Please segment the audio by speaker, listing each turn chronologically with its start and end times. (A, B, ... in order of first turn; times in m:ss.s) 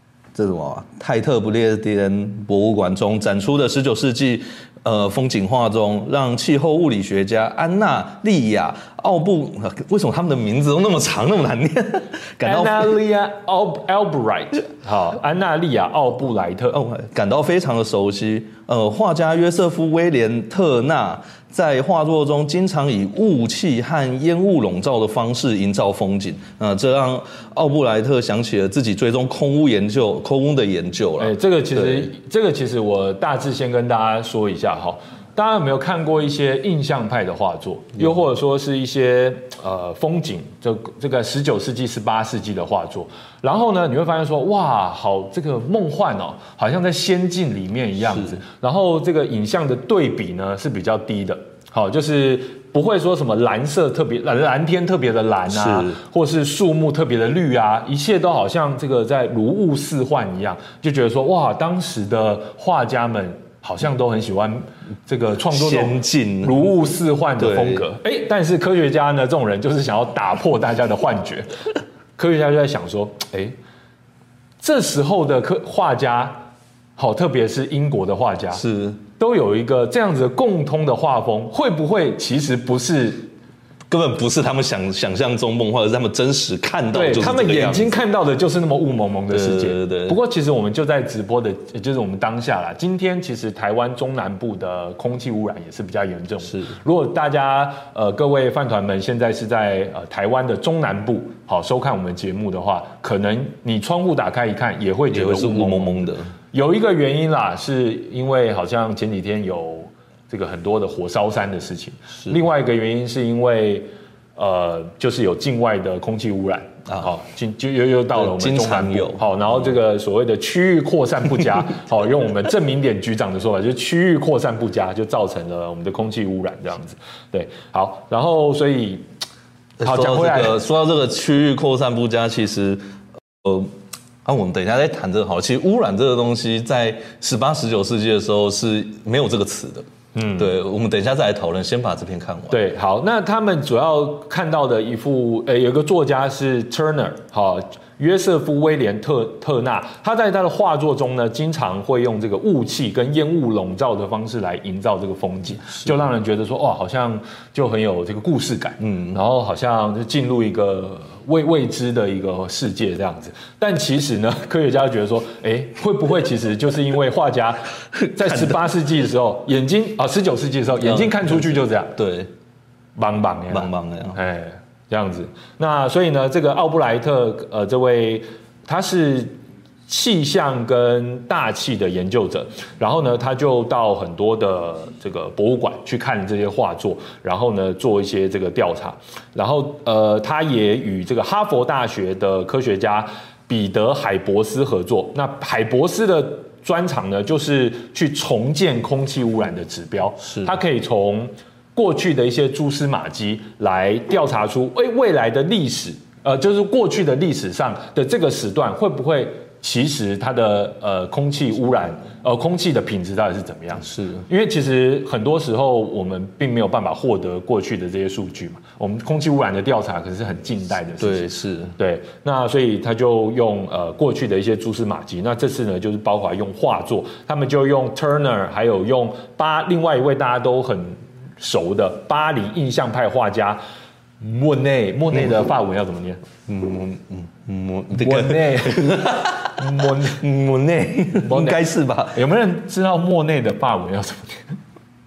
0:00.3-0:12.9 A
0:12.4-0:16.8 B
0:16.7-0:32.1 A
0:31.2-1:11.5 B
0:48.1-0:48.4 A
0:55.5-0:56.0 A
1:05.5-1:06.7 A
1:07.4-1:07.8 A
1:12.2-1:13.6 B
1:14.6-1:16.4 B
1:17.0-1:18.6 B
1:18.5-1:19.0 A
1:19.2-1:23.3 B
1:23.9-1:28.0 A
1:26.9-2:09.0 B
1:29.3-1:30.2 A
1:45.1-1:46.3 A
1:58.2-1:59.6 A
2:09.8-2:12.8 A
2:09.8-2:10.6 B
2:13.4-2:13.7 A
2:14.2-2:22.6 A
2:20.1-2:20.6 B
2:22.5-2:52.0 B
2:38.8-2:39.2 A
2:48.2-2:48.6 A
2:50.8-2:52.3 A
2:53.0-3:53.6 B
2:53.5-2:54.2 A
3:20.2-3:20.5 A
3:33.8-3:34.3 A
3:41.0-3:41.7 A
3:54.2-3:56.2 B
3:56.5-4:02.2 A
3:57.9-4:00.2 B
4:01.2-4:04.6 B